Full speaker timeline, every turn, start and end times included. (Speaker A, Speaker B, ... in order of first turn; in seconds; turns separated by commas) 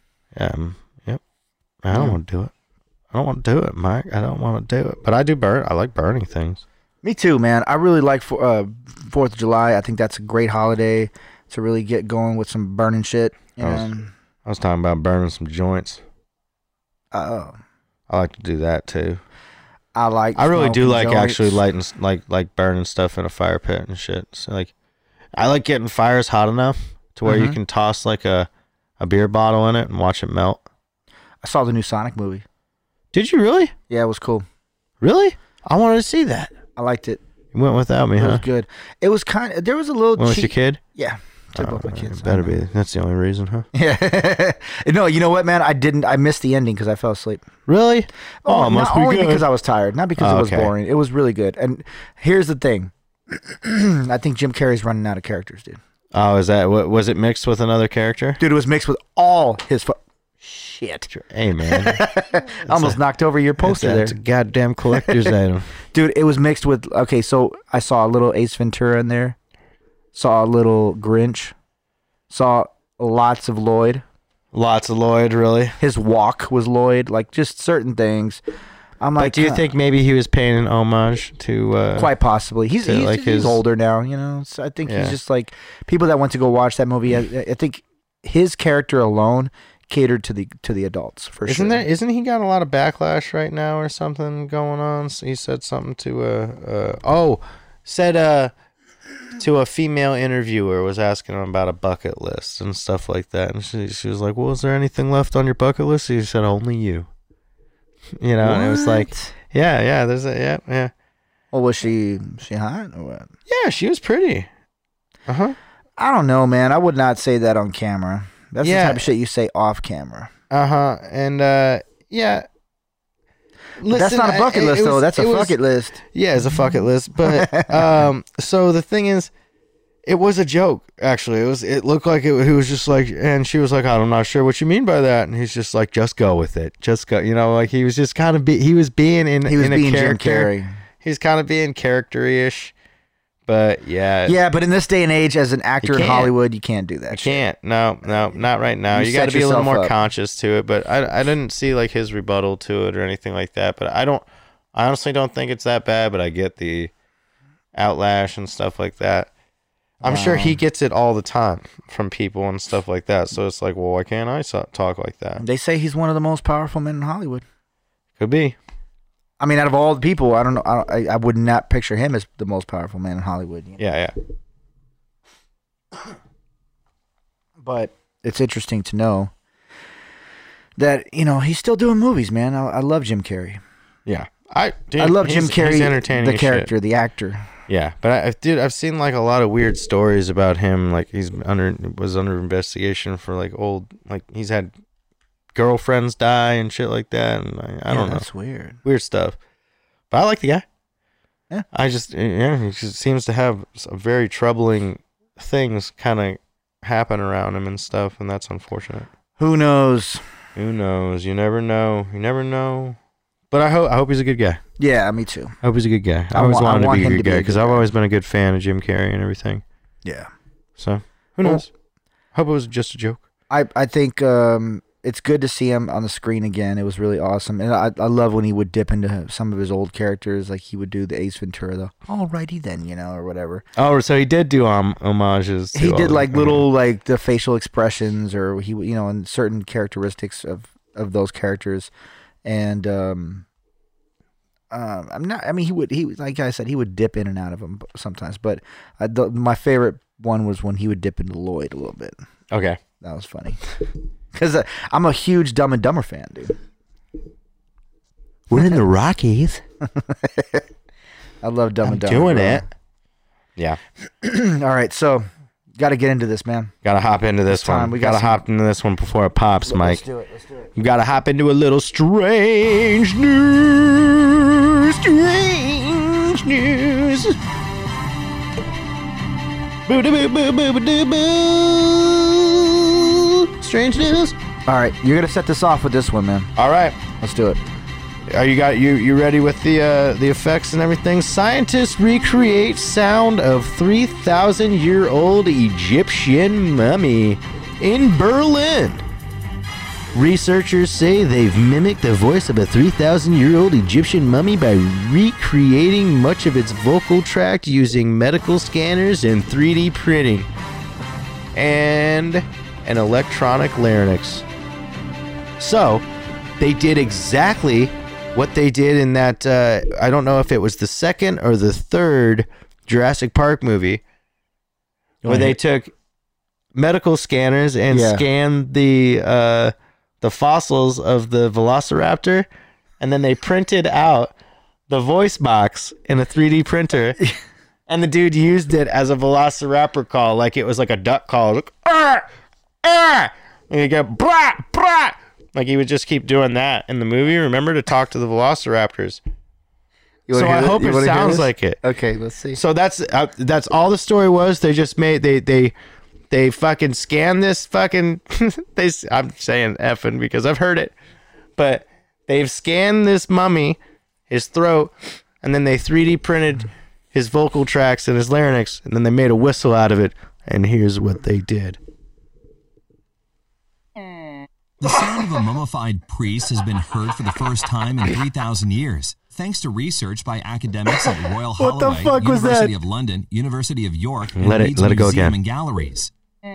Speaker A: 0.3-1.2, Speaker A: 1.8-2.5, Speaker B: 1.9-2.2, Speaker A: 3.1-6.6, Speaker B: 7.0-14.1, Speaker A: 13.6-13.9, Speaker A: 14.4-16.0, Speaker B: 17.1-17.6, Speaker A: 18.1-19.2, Speaker B: 19.9-21.6, Speaker A: 20.4-24.7, Speaker A: 25.4-28.5, Speaker B: 27.3-27.6, Speaker A: 29.0-30.6, Speaker B: 31.4-32.5, Speaker A: 33.1-33.7, Speaker B: 33.9-34.5, Speaker A: 35.0-36.6, Speaker B: 36.8-37.2, Speaker A: 37.5-38.4, Speaker B: 38.2-42.6, Speaker A: 40.2-40.8, Speaker A: 41.5-43.7, Speaker B: 43.7-47.5, Speaker A: 47.7-49.5, Speaker B: 48.4-55.8, Speaker A: 50.2-50.7, Speaker A: 56.1-58.4, Speaker B: 58.4-61.1, Speaker A: 61.1-63.0, Speaker B: 61.6-64.2, Speaker A: 63.6-65.7, Speaker B: 64.9-65.3, Speaker B: 65.9-69.4, Speaker B: 70.1-71.5, Speaker B: 72.3-74.0, Speaker A: 74.5-75.8, Speaker B: 75.8-78.4, Speaker B: 79.0-79.7, Speaker A: 79.2-82.1, Speaker B: 82.0-91.9, Speaker A: 82.8-83.6, Speaker A: 84.9-85.2, Speaker A: 91.5-98.5, Speaker A: 99.4-107.1, Speaker A: 108.2-110.9, Speaker B: 108.4-109.3, Speaker B: 111.5-113.3, Speaker A: 113.5-114.5, Speaker A: 115.3-115.6, Speaker B: 116.0-120.3, Speaker A: 118.6-119.1, Speaker A: 120.5-122.5, Speaker A: 123.8-129.3, Speaker B: 123.9-126.0, Speaker B: 127.2-128.1, Speaker A: 130.1-142.7, Speaker B: 139.4-140.7, Speaker A: 143.5-144.4, Speaker B: 144.3-147.4, Speaker A: 145.8-146.3, Speaker A: 147.1-156.9, Speaker B: 148.9-149.9, Speaker A: 157.7-159.3, Speaker B: 160.0-160.6, Speaker A: 160.0-165.4, Speaker B: 165.4-167.4, Speaker A: 168.2-168.6, Speaker B: 169.4-173.8, Speaker A: 173.8-174.1, Speaker B: 177.6-179.3, Speaker B: 180.8-183.6, Speaker A: 184.1-186.7, Speaker B: 185.0-187.5, Speaker A: 187.7-194.7, Speaker A: 195.5-198.3, Speaker B: 197.9-198.8, Speaker A: 198.8-199.4, Speaker A: 200.1-200.7, Speaker A: 201.7-209.1, Speaker B: 209.4-210.2, Speaker A: 210.6-213.0, Speaker A: 213.5-214.6, Speaker B: 214.8-215.6, Speaker A: 215.6-219.6, Speaker B: 216.3-217.9, Speaker B: 220.1-220.3, Speaker A: 220.8-221.7, Speaker A: 222.3-223.2, Speaker B: 223.5-233.7, Speaker A: 233.8-236.7, Speaker B: 235.7-241.9, Speaker B: 242.4-243.4, Speaker B: 244.7-252.2, Speaker A: 252.5-252.8, Speaker B: 253.0-253.6, Speaker B: 254.3-256.6, Speaker A: 258.5-259.6, Speaker B: 259.9-260.6, Speaker B: 261.4-262.6, Speaker A: 261.8-262.7, Speaker B: 264.2-266.7, Speaker A: 266.8-270.0, Speaker B: 267.5-268.4, Speaker B: 269.7-270.7, Speaker A: 270.8-277.4, Speaker A: 279.9-284.4, Speaker B: 284.7-286.5, Speaker A: 286.6-287.0, Speaker B: 287.2-287.6, Speaker A: 288.3-299.1, Speaker A: 300.1-310.5, Speaker A: 311.5-314.5, Speaker A: 315.6-316.1, Speaker A: 316.6-324.0, Speaker B: 325.2-325.6, Speaker A: 325.3-325.9, Speaker A: 326.7-332.5, Speaker B: 327.9-328.2, Speaker A: 333.0-334.3, Speaker A: 334.9-337.2, Speaker A: 337.9-342.3, Speaker A: 342.8-349.2, Speaker B: 350.3-352.6, Speaker A: 350.3-351.8, Speaker A: 352.5-355.7, Speaker A: 356.3-360.9, Speaker A: 361.6-371.8, Speaker C: 374.8-386.1, Speaker B: 381.6-382.7, Speaker A: 384.4-385.4